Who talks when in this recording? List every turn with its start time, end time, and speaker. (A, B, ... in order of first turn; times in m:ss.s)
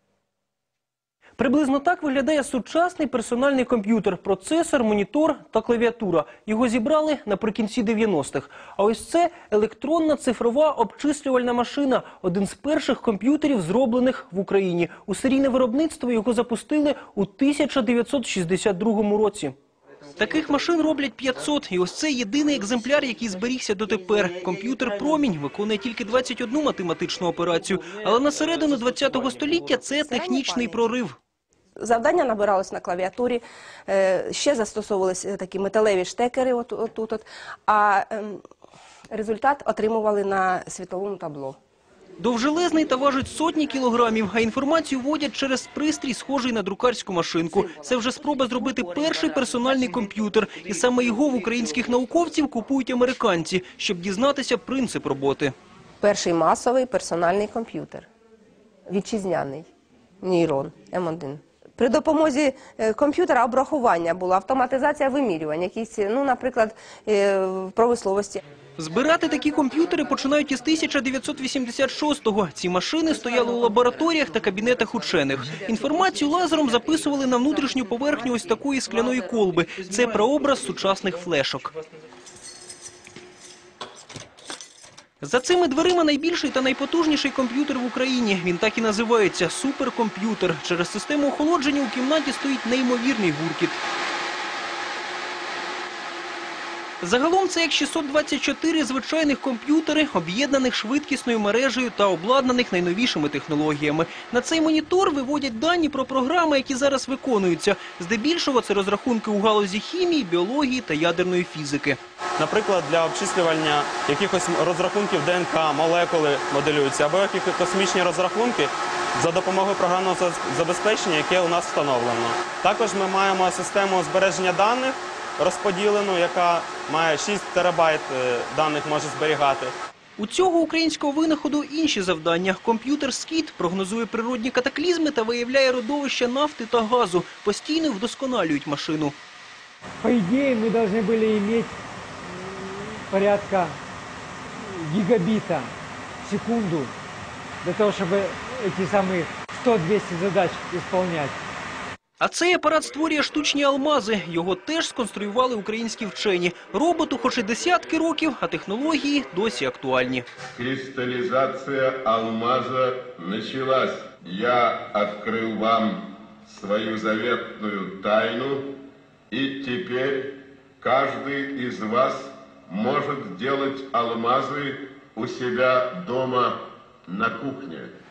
0:01.4-0:19.6 A
0:20.2-0:31.2 A
0:30.0-0:30.8 B
0:31.8-0:38.4 B
0:39.1-0:41.6 B
0:42.2-0:55.5 A
0:56.0-0:58.1 B
0:58.9-0:59.7 B
1:00.2-1:08.4 B
1:08.8-1:21.7 A
1:25.2-1:33.8 A
1:37.0-1:52.0 A
1:52.4-2:09.8 C
2:10.2-2:19.2 A
2:20.0-2:21.8 D
2:22.3-2:23.8 D
2:24.6-2:25.7 D
2:26.2-2:26.9 D
2:27.6-2:31.4 D
2:32.2-2:40.3 A
2:40.5-2:48.7 E
2:49.3-2:57.9 E